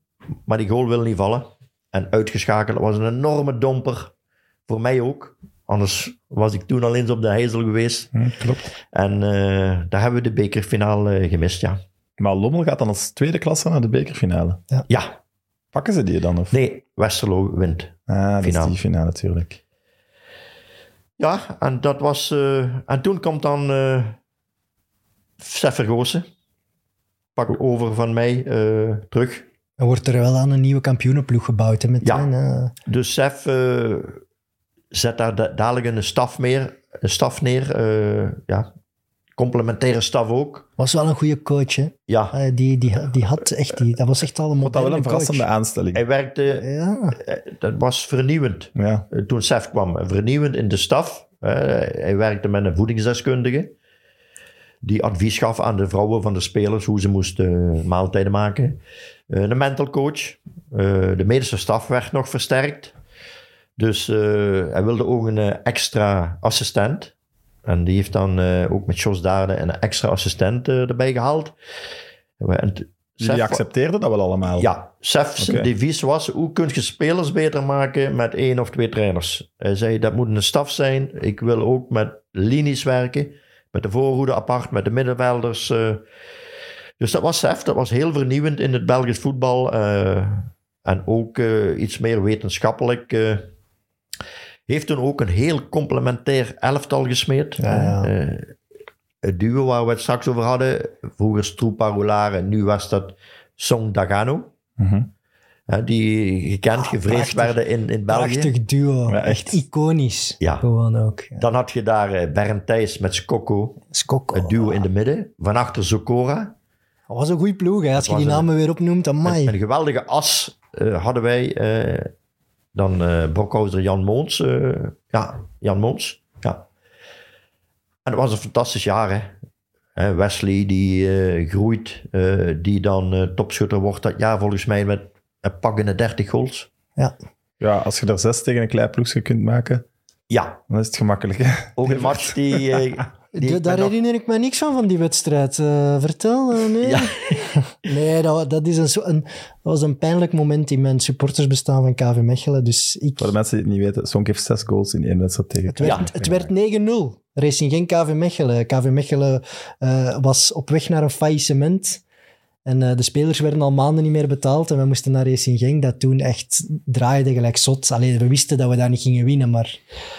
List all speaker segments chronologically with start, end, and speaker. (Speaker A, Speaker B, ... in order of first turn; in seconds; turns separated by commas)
Speaker A: 0.5-4.1, Speaker A: 4.7-8.1, Speaker B: 8.1-8.7, Speaker A: 8.8-11.8, Speaker B: 12.2-14.6, Speaker A: 14.9-15.2, Speaker B: 15.7-16.6, Speaker A: 16.5-18.8, Speaker B: 18.1-19.6, Speaker A: 21.2-24.2, Speaker A: 25.4-26.2, Speaker A: 27.4-29.5, Speaker C: 29.8-32.7, Speaker A: 32.0-32.3, Speaker A: 32.9-34.2, Speaker A: 34.9-38.7, Speaker A: 39.4-40.7, Speaker C: 40.8-45.5, Speaker A: 42.1-42.4, Speaker B: 44.6-46.0, Speaker A: 45.9-53.7, Speaker C: 46.6-47.2, Speaker B: 48.8-49.1, Speaker A: 54.8-58.8, Speaker A: 59.3-63.0, Speaker A: 63.8-67.1, Speaker A: 67.7-71.5, Speaker A: 72.4-73.6, Speaker B: 73.2-74.7, Speaker A: 74.5-86.0, Speaker B: 75.4-75.7, Speaker A: 87.0-93.5, Speaker A: 94.7-98.5, Speaker C: 97.6-98.1, Speaker A: 99.2-104.5, Speaker B: 104.8-105.1, Speaker A: 105.7-108.5, Speaker C: 106.8-111.4, Speaker B: 109.1-109.6, Speaker A: 111.4-113.8, Speaker C: 113.9-114.6, Speaker A: 114.3-116.5, Speaker C: 117.1-119.5, Speaker A: 118.0-118.5, Speaker A: 119.2-122.1, Speaker A: 122.8-126.7, Speaker A: 128.1-129.3, Speaker A: 130.0-136.7, Speaker B: 137.6-139.9, Speaker A: 140.3-140.6, Speaker B: 140.7-143.0, Speaker A: 141.8-143.9, Speaker C: 143.4-153.3, Speaker A: 146.8-147.4, Speaker B: 153.2-156.5, Speaker C: 155.7-162.0, Speaker C: 162.7-169.8